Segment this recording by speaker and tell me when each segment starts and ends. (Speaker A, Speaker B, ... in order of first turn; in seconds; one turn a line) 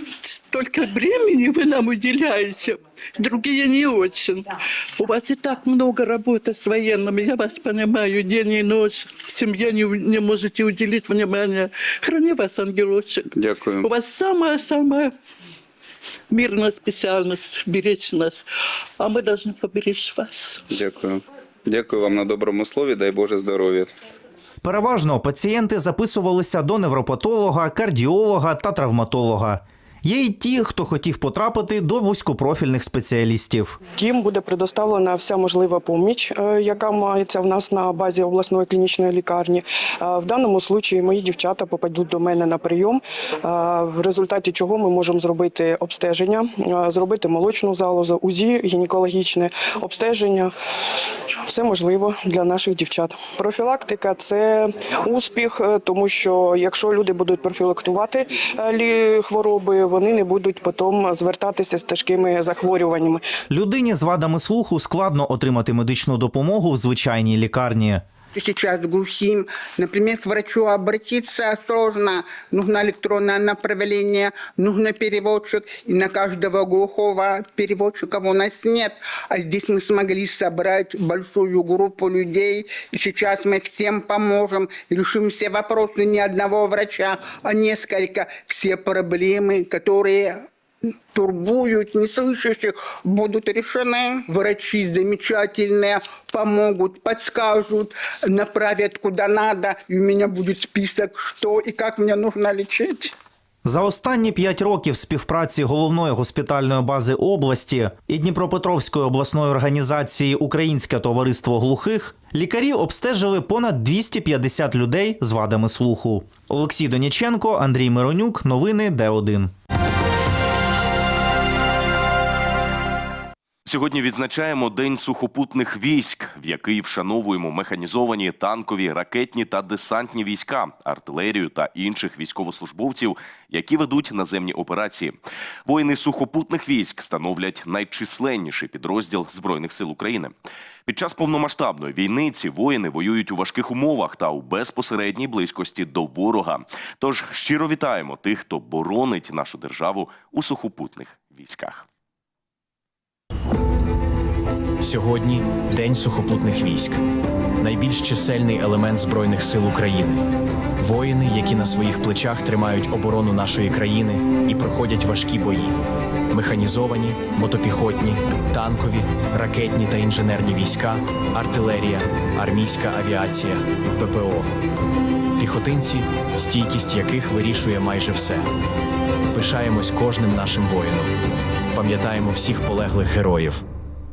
Speaker A: 0.2-13.3
Speaker B: 13.3-13.9
Speaker A: 13.8-15.2
Speaker A: 16.3-18.4
Speaker A: 19.0-20.6
Speaker B: 20.7-23.9
Speaker C: 24.6-33.8
Speaker D: 33.9-50.5
Speaker D: 51.5-63.2
Speaker C: 63.5-68.0
Speaker E: 68.3-90.5
Speaker E: 91.1-103.1
Speaker C: 103.7-119.5
Speaker F: 123.7-140.3
Speaker F: 140.9-151.9
Speaker G: 154.8-157.0
Speaker G: 157.6-174.6
Speaker G: 175.4-178.5
Speaker G: 179.3-181.2
Speaker G: 181.7-183.6